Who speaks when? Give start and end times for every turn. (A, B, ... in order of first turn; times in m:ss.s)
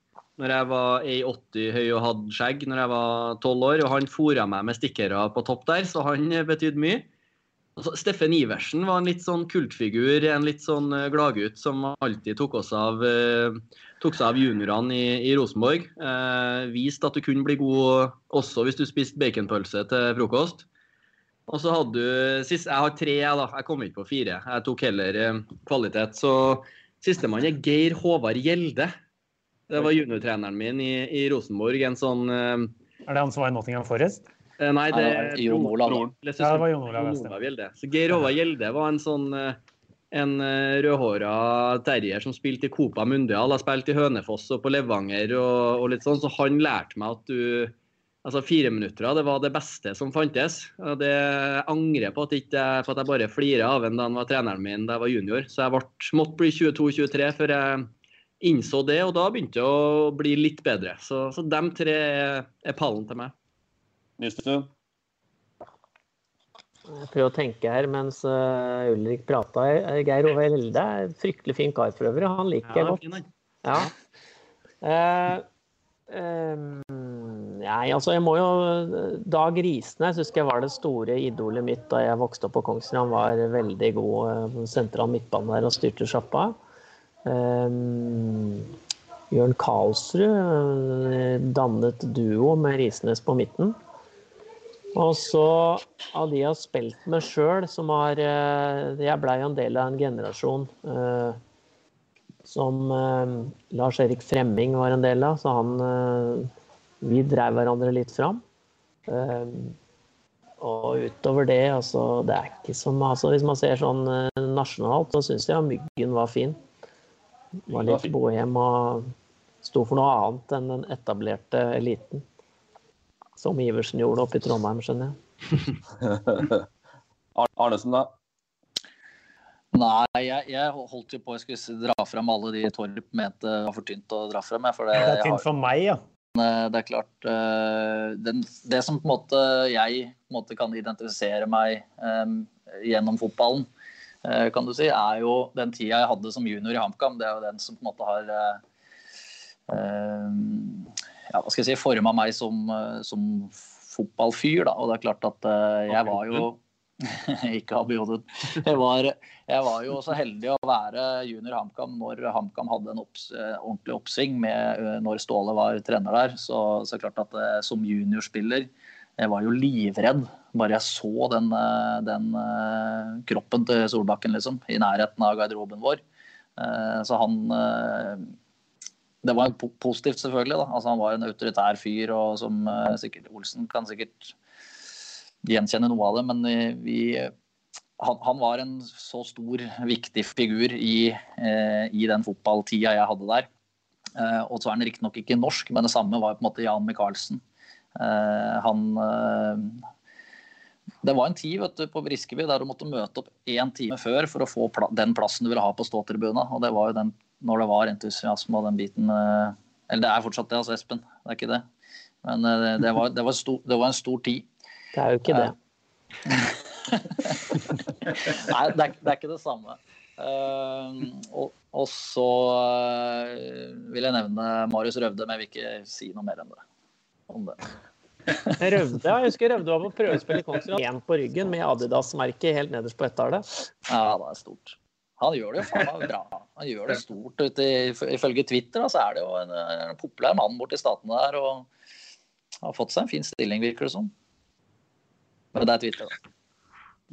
0:00.4-0:07.1 A
0:07.8-0:20.7 A
0:21.5-0:28.9 A
0:29.7-0:32.7 A
0:33.1-0:34.2 B
0:34.6-0:39.6 A
0:34.9-0:36.0 C
0:36.4-0:37.3 B
0:40.1-0:57.9 A
0:58.4-1:03.3 A
1:04.2-1:04.7 D
1:06.9-1:13.0 E
1:12.7-1:13.9 A
1:13.6-1:13.9 E
1:14.8-1:15.4 E
1:16.1-1:26.5 E
1:27.2-1:28.7 E
1:29.3-1:33.8 E
1:34.9-1:41.4 E
1:42.4-1:46.5 E
1:47.0-1:48.4 E
1:49.1-1:49.8 E
1:50.6-1:56.6 E
1:57.7-1:59.1 E
1:57.8-1:58.1 D
1:59.6-2:02.2 E
2:03.4-2:05.1 E
2:06.0-2:06.6 D
2:07.3-2:08.1 D
2:09.7-2:15.4 C
2:14.9-2:16.0 B
2:16.3-2:23.7 C
2:24.2-2:28.6 C
2:29.7-2:56.0 C
2:56.6-2:58.3 C
2:59.2-3:04.3 C
3:05.4-3:07.3 C
3:08.0-3:13.5 C
3:14.2-3:17.4 C
3:18.0-3:19.8 C
3:21.0-3:31.6 C
3:32.2-3:34.5 C
3:34.9-3:35.5 E
3:36.2-3:46.6 C
3:47.3-3:47.6 C
3:48.6-3:53.5 E
3:53.9-4:01.7 C
4:02.6-4:04.1 C
4:05.5-4:06.1 C